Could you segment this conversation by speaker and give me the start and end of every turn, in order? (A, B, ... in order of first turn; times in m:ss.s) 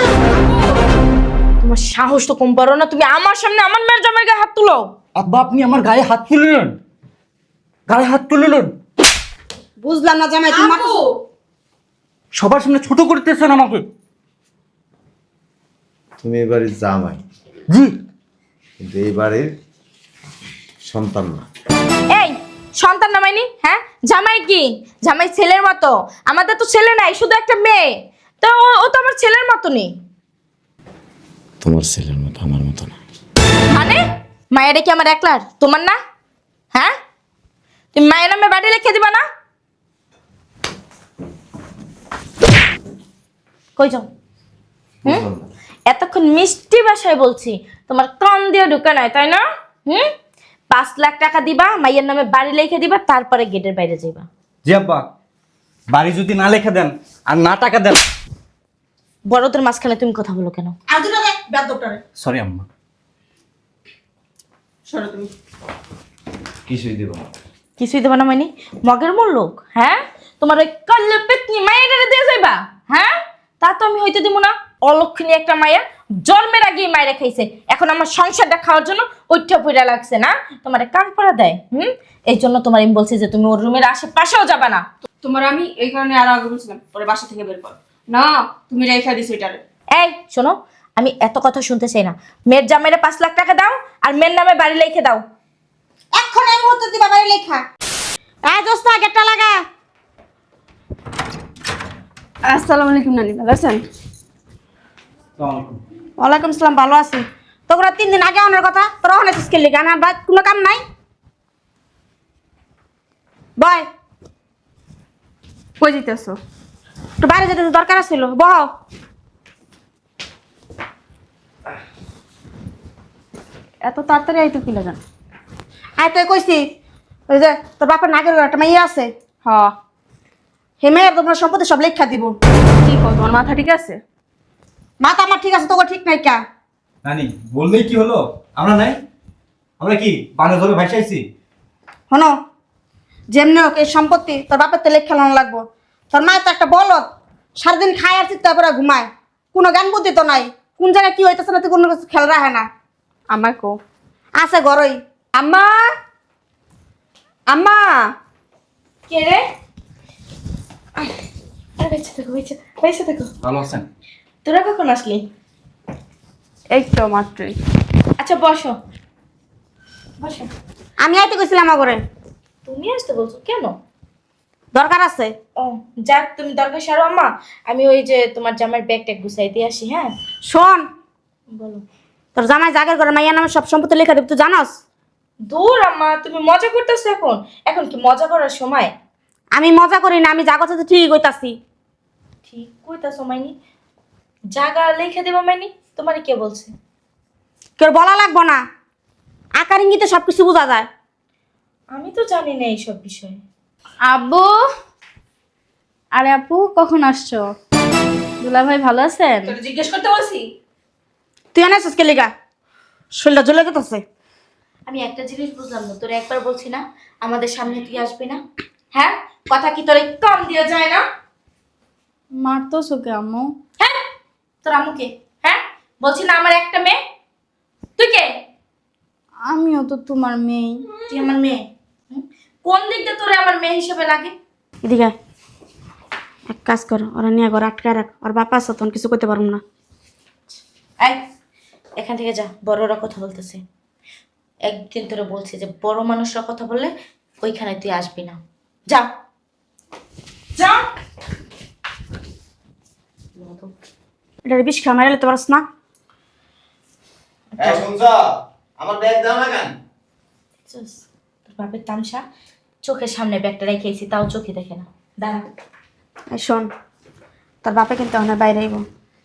0:00.3-0:00.8 A
0:01.6-0:04.9 B
0:05.2-0:06.8 C
0:07.9-0:08.7 C
0:09.8-0:11.0 D
0:10.5-0:11.2 A
0:12.4-0:13.8 C
0:16.2-0:17.2 E
0:17.7-0:18.0 C
0:18.8-0:19.5 E
0:20.8-0:21.5 E
0:22.1-0:29.9 B
0:31.6-0:33.0 E
0:33.7-0:34.0 B
0:34.5-0:36.0 B
0:37.9-0:39.2 B
0:43.8-0:44.1 B
0:45.0-0:45.4 E
0:45.9-0:50.1 B
0:50.7-0:54.3 B
0:54.7-0:55.0 C
0:55.9-0:58.0 C
0:59.3-1:00.7 B
1:00.9-1:02.0 D
1:02.2-1:02.7 C
1:04.9-1:05.3 A
1:06.7-1:07.3 E
1:07.8-1:24.8 B
1:25.2-1:29.6 A
1:29.9-1:35.2 B
1:36.1-1:37.6 D
1:38.4-1:39.6 D
1:42.5-1:43.8 A
1:45.4-1:45.8 C
1:46.2-1:50.8 D
1:53.6-1:53.9 D
1:55.8-1:56.4 A
1:57.2-1:58.7 D
2:03.8-2:05.0 A
2:06.0-2:06.7 D
2:07.3-2:09.1 D
2:09.4-2:09.7 A
2:10.8-2:12.4 D
2:12.8-2:14.0 A
2:15.0-2:16.4 D
2:17.0-2:19.0 C
2:19.8-2:21.2 C
2:22.1-2:22.4 D
2:23.3-2:27.1 D
2:27.6-2:32.7 D
2:33.3-2:33.8 A
2:34.4-2:35.0 D
2:35.3-2:35.9 A
2:37.5-2:38.1 A
2:39.1-2:39.4 B
2:41.8-2:43.3 B
2:43.4-2:43.8 C
2:44.4-2:45.2 B
2:46.7-2:47.6 A
2:48.2-2:48.8 B
2:50.2-2:50.5 B
2:51.0-2:52.0 D
2:52.7-2:53.8 B
2:54.7-2:55.3 D
2:55.6-3:00.1 B
3:00.5-3:00.9 D
3:01.5-3:01.8 B
3:02.4-3:04.8 D
3:05.5-3:08.9 B
3:09.5-3:11.6 D
3:12.5-3:13.5 B
3:14.5-3:16.7 B
3:17.8-3:18.6 D
3:19.6-3:20.9 D
3:21.9-3:23.4 B
3:24.0-3:24.5 F
3:26.1-3:27.5 F
3:28.4-3:29.5 F
3:29.5-3:30.5 A
3:31.5-3:32.3 D
3:33.2-3:34.0 D
3:34.9-3:38.4 B
3:38.9-3:41.0 B
3:42.4-3:43.5 F
3:44.6-3:47.0 B
3:48.0-3:48.3 B
3:49.5-3:50.8 F
3:51.1-3:54.3 B
3:54.8-3:55.2 D
3:56.5-3:59.6 D
4:02.0-4:03.6 B
4:04.7-4:09.1 B
4:10.6-4:10.8 B
4:13.4-4:13.7 B
4:14.5-4:15.6 D
4:17.6-4:17.8 B
4:17.6-4:19.8 E
4:20.7-4:22.2 B
4:22.8-4:25.4 B
4:26.3-4:26.7 D
4:27.6-4:28.8 D